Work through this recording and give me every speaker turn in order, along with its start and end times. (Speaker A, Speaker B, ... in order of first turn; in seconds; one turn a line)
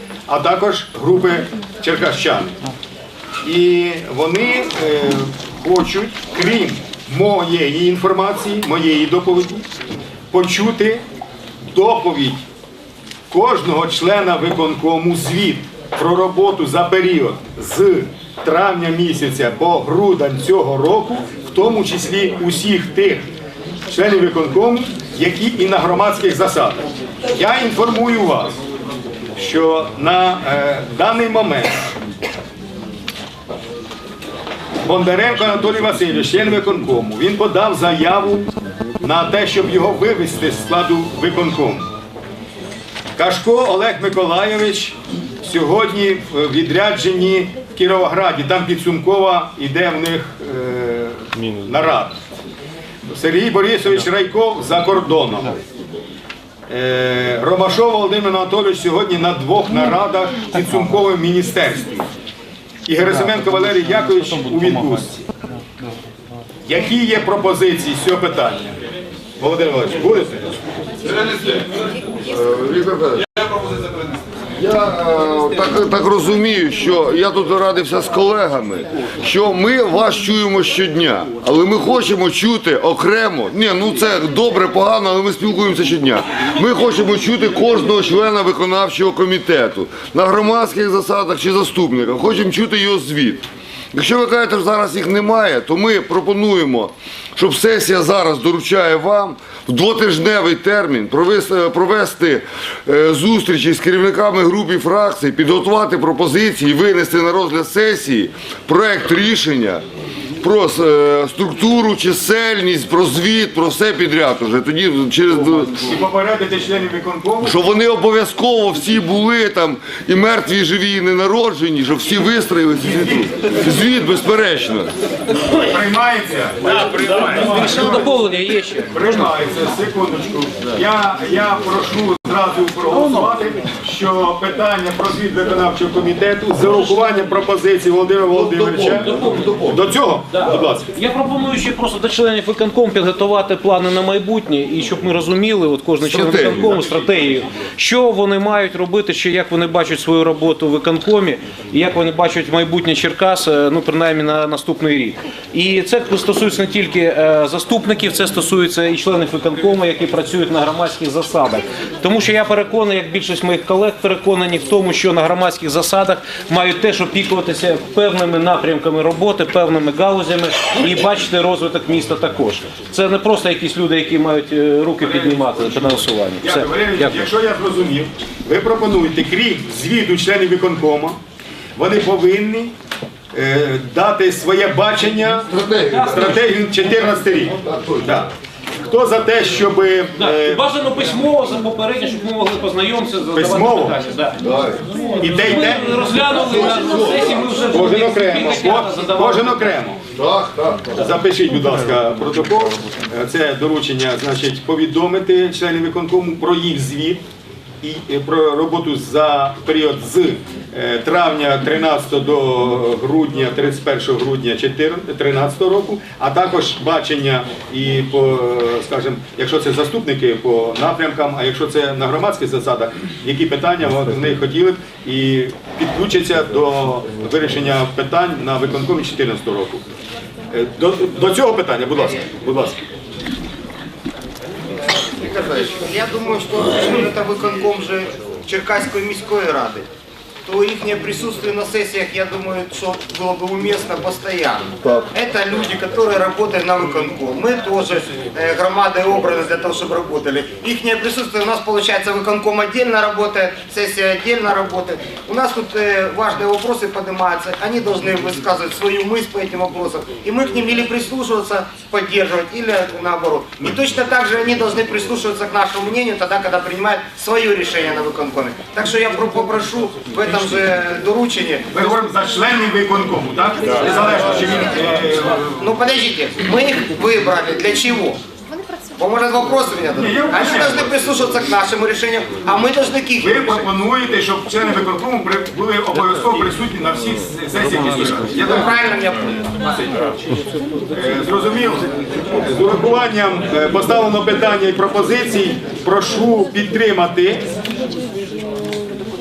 Speaker A: 0.3-2.6
Speaker A: 3.4-9.7
Speaker A: 10.3-11.0
Speaker A: 11.6-12.4
Speaker A: 13.3-23.2
Speaker A: 23.9-28.6
Speaker A: 29.4-31.9
Speaker A: 34.9-38.5
Speaker A: 39.0-41.9
Speaker A: 43.2-52.2
Speaker A: 53.1-55.6
Speaker A: 56.7-62.1
Speaker A: 62.9-65.2
Speaker B: 63.2-65.2
Speaker A: 66.7-68.8
Speaker A: 69.4-70.6
Speaker C: 71.2-71.6
Speaker C: 72.2-73.5
Speaker C: 74.5-109.8
Speaker C: 110.4-115.9
Speaker A: 115.7-117.7
Speaker C: 117.4-124.9
Speaker A: 122.8-123.6
Speaker A: 125.5-128.1
Speaker B: 126.6-129.3
Speaker A: 128.9-139.1
Speaker C: 138.4-139.7
Speaker B: 139.0-139.7
Speaker A: 139.7-140.9
Speaker B: 140.3-177.2
Speaker C: 146.0-146.7
Speaker A: 175.0-181.2
Speaker A: 181.8-182.7
Speaker A: 183.3-188.3
Speaker C: 185.5-186.1
Speaker B: 185.9-186.4
Speaker C: 187.7-188.0
Speaker A: 188.8-190.7
Speaker B: 190.2-194.4
Speaker A: 193.3-194.0
Speaker C: 194.4-194.8
Speaker B: 194.9-199.7
Speaker A: 195.2-196.0
Speaker C: 196.4-197.5
Speaker A: 197.7-200.0
Speaker C: 200.2-200.9
Speaker A: 200.9-207.2
Speaker A: 207.8-229.8
Speaker A: 230.5-232.8
Speaker D: 234.9-239.8
Speaker D: 240.5-271.7
Speaker A: 271.7-275.6
Speaker D: 275.6-278.2
Speaker D: 279.0-283.7
Speaker A: 279.9-280.8
Speaker A: 283.2-288.7
Speaker D: 288.4-289.6
Speaker A: 290.9-297.5